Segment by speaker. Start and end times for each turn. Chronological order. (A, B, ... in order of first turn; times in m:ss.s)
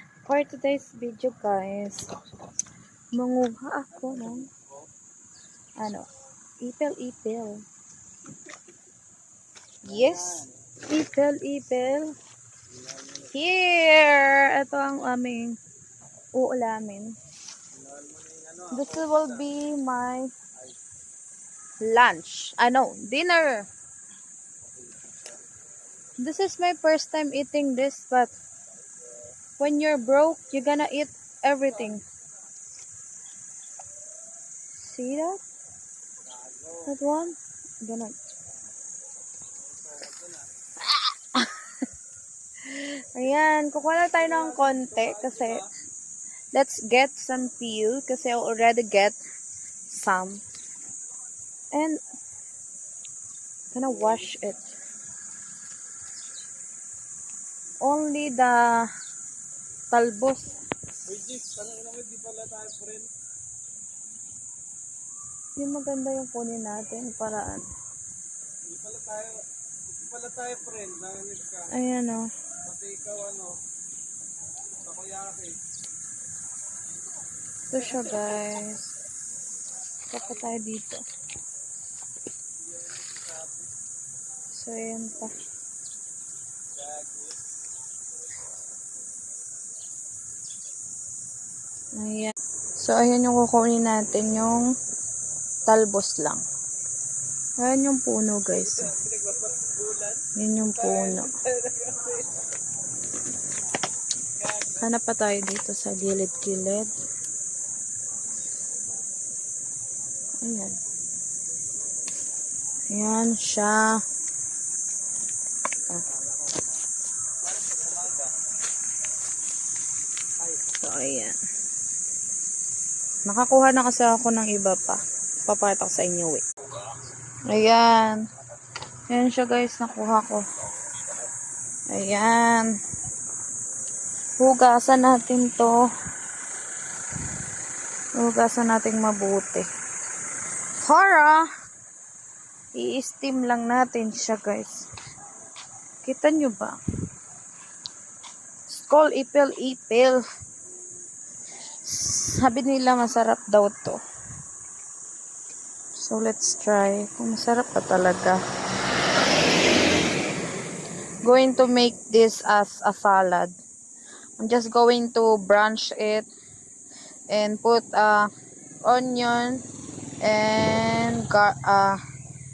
0:00.2-0:02.1 A
0:03.1-0:04.5 A
0:03.9-0:04.5 B
0:05.8-0:06.1 A
0:06.6-0:07.6 A
0:09.8-0:12.1 A
0:09.9-0:10.6 B
0:12.7-0:13.3 B
0:13.3-0:15.6 A
0:16.3-0:17.2 A
0:17.7-0:19.5 B
0:18.7-0:20.3 A
0:21.8-0:23.7 A
0:24.7-0:25.2 B
0:26.2-0:28.3 A
0:29.6-0:32.0 A
0:34.8-0:35.4 A
0:36.3-0:36.9 B
0:36.8-0:38.2 A
0:39.6-0:40.5 B
0:40.8-0:41.5 A
0:42.6-0:45.6 A
0:44.2-0:45.7 B
0:46.5-0:49.2 A
0:49.9-0:50.4 A
0:51.7-0:52.0 A
0:53.7-0:54.7 A
0:57.8-0:58.9 A
0:59.9-1:00.6 A
1:01.1-1:03.1 B
1:05.6-1:07.6 A
1:08.7-1:11.7 B
1:11.7-1:12.3 A
1:12.6-1:13.6 B
1:14.8-1:15.6 B
1:17.7-1:18.9 A
1:17.8-1:18.2 B
1:20.1-1:21.0 A
1:22.6-1:23.7 B
1:24.5-1:25.3 A
1:26.7-1:27.4 B
1:32.0-1:34.7 A
1:35.7-1:36.4 A
1:37.6-1:38.9 A
1:38.5-1:40.2 B
1:40.4-1:41.3 A
1:40.8-1:42.4 B
1:44.4-1:44.8 B
1:44.7-1:46.9 A
1:50.4-1:50.8 A
1:52.9-1:54.0 A
1:56.4-1:56.6 B
1:57.4-1:58.3 B
2:00.7-2:01.4 A
2:03.2-2:06.4 A
2:07.5-2:08.2 A
2:09.1-2:10.4 A
2:11.9-2:12.7 A
2:14.4-2:15.8 A
2:18.2-2:19.6 A
2:20.8-2:21.4 A
2:22.7-2:24.9 A
2:26.0-2:26.8 A
2:28.7-2:30.2 A
2:31.8-2:34.0 A
2:36.0-2:38.4 A
2:41.2-2:43.5 A
2:44.4-2:46.3 A
2:47.3-2:48.3 A
2:48.8-2:49.6 A
2:50.2-2:52.0 A